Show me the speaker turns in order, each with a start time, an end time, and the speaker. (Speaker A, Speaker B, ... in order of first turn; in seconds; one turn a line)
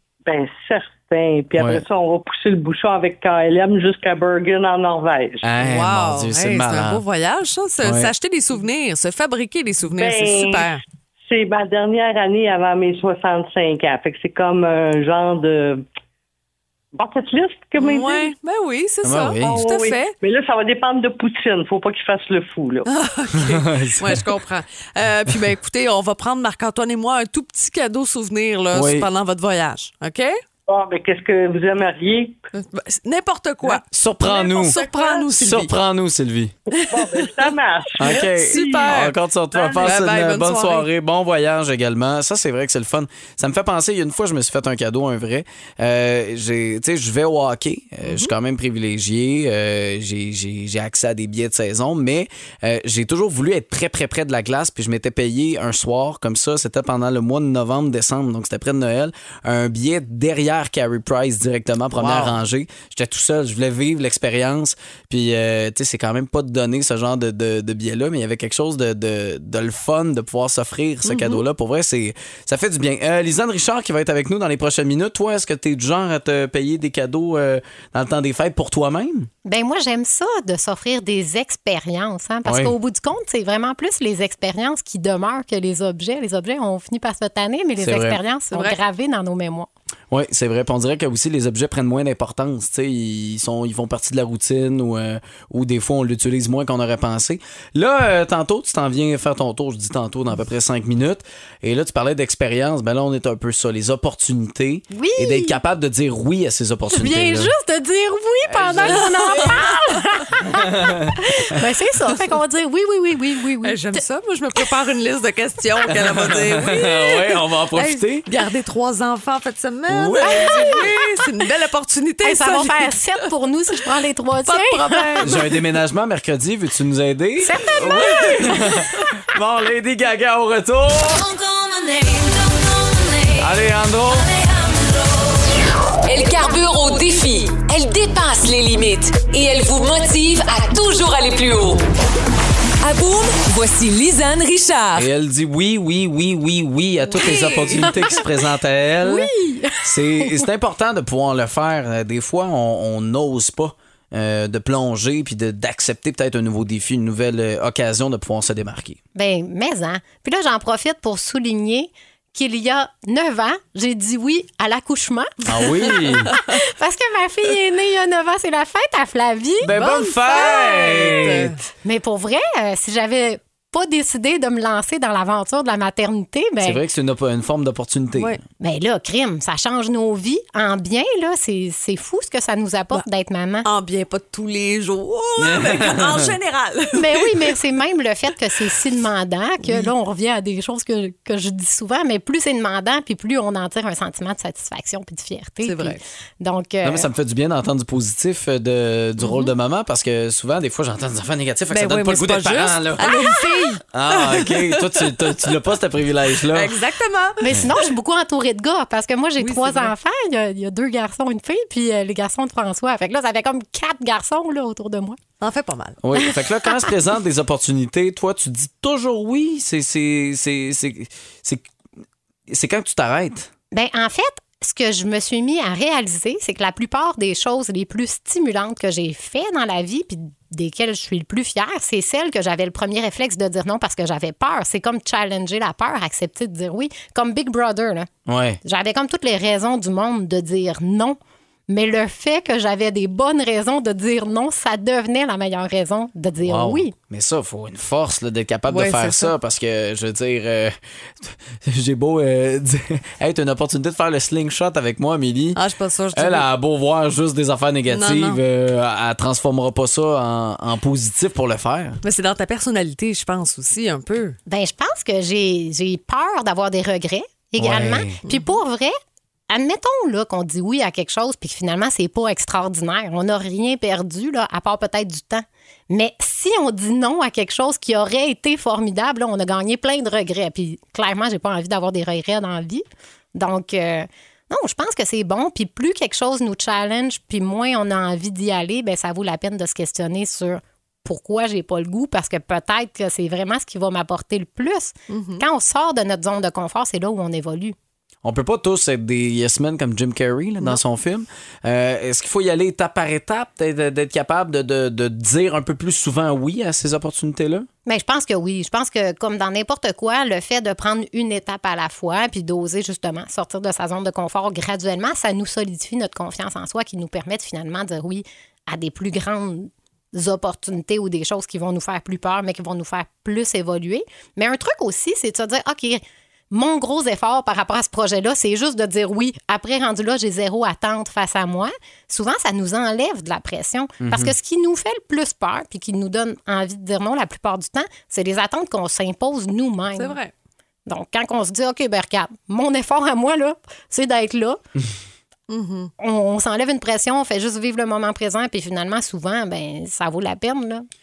Speaker A: 0.2-5.4
Speaker B: 1.6-1.8
Speaker B: 5.4-7.0
Speaker C: 5.6-10.8
Speaker B: 7.8-8.1
Speaker A: 10.0-15.8
Speaker A: 16.9-18.3
Speaker C: 17.8-20.1
Speaker B: 19.0-19.6
Speaker A: 19.4-22.9
Speaker C: 22.9-30.4
Speaker B: 23.4-24.2
Speaker B: 28.7-29.1
Speaker A: 30.7-32.4
Speaker C: 32.5-35.7
Speaker B: 33.6-34.8
Speaker A: 34.6-35.2
Speaker B: 35.3-36.5
Speaker C: 36.7-39.1
Speaker A: 36.9-39.0
Speaker B: 38.0-79.3
Speaker A: 39.5-39.9
Speaker C: 39.8-40.9
Speaker C: 48.0-48.3
Speaker C: 61.9-62.4
Speaker C: 71.0-71.4
Speaker D: 79.4-89.7
Speaker B: 82.4-82.7
Speaker B: 87.8-88.2
Speaker C: 88.5-88.8
Speaker B: 90.1-107.5
Speaker D: 104.9-105.6
Speaker D: 106.9-114.0
Speaker B: 108.5-109.6
Speaker C: 108.8-109.7
Speaker B: 110.4-111.2
Speaker C: 113.6-123.0
Speaker B: 115.9-118.2
Speaker B: 119.9-120.8
Speaker D: 120.2-120.9
Speaker D: 122.2-125.3
Speaker C: 124.4-125.6
Speaker B: 125.2-131.2
Speaker D: 127.4-128.7
Speaker E: 131.1-133.5
Speaker B: 133.4-134.3
Speaker E: 134.1-141.8
Speaker E: 142.8-145.1
Speaker B: 144.9-149.3
Speaker C: 147.1-148.2
Speaker D: 149.0-150.4
Speaker B: 149.8-159.0
Speaker D: 159.1-169.7
Speaker B: 165.4-166.3
Speaker B: 169.6-171.6
Speaker C: 169.7-171.6
Speaker D: 171.8-176.8
Speaker B: 176.6-178.4
Speaker C: 178.2-178.4
Speaker D: 178.6-183.7
Speaker C: 183.6-187.6
Speaker B: 185.4-186.3
Speaker D: 186.9-197.1
Speaker C: 189.6-189.9
Speaker C: 195.6-196.0
Speaker B: 196.8-203.1
Speaker C: 199.2-199.5
Speaker C: 201.7-205.5
Speaker D: 203.0-203.7
Speaker B: 203.9-206.8
Speaker C: 206.5-207.5
Speaker D: 207.4-215.2
Speaker C: 209.4-209.9
Speaker C: 215.4-216.0
Speaker B: 216.0-221.6
Speaker B: 222.5-223.5
Speaker D: 223.7-238.1
Speaker B: 238.3-238.6
Speaker D: 238.6-246.9
Speaker B: 246.4-255.6
Speaker C: 248.7-249.3
Speaker C: 255.5-256.5
Speaker B: 256.1-262.0
Speaker C: 257.9-258.4
Speaker C: 262.0-264.4
Speaker D: 264.5-268.9
Speaker B: 267.6-268.2
Speaker C: 268.2-268.5
Speaker D: 269.5-282.8
Speaker D: 283.3-297.7
Speaker C: 295.1-295.4
Speaker B: 298.2-307.7
Speaker D: 307.9-340.2
Speaker B: 334.0-334.3
Speaker C: 339.9-340.3
Speaker D: 340.9-344.6
Speaker C: 345.5-345.9
Speaker D: 346.0-350.9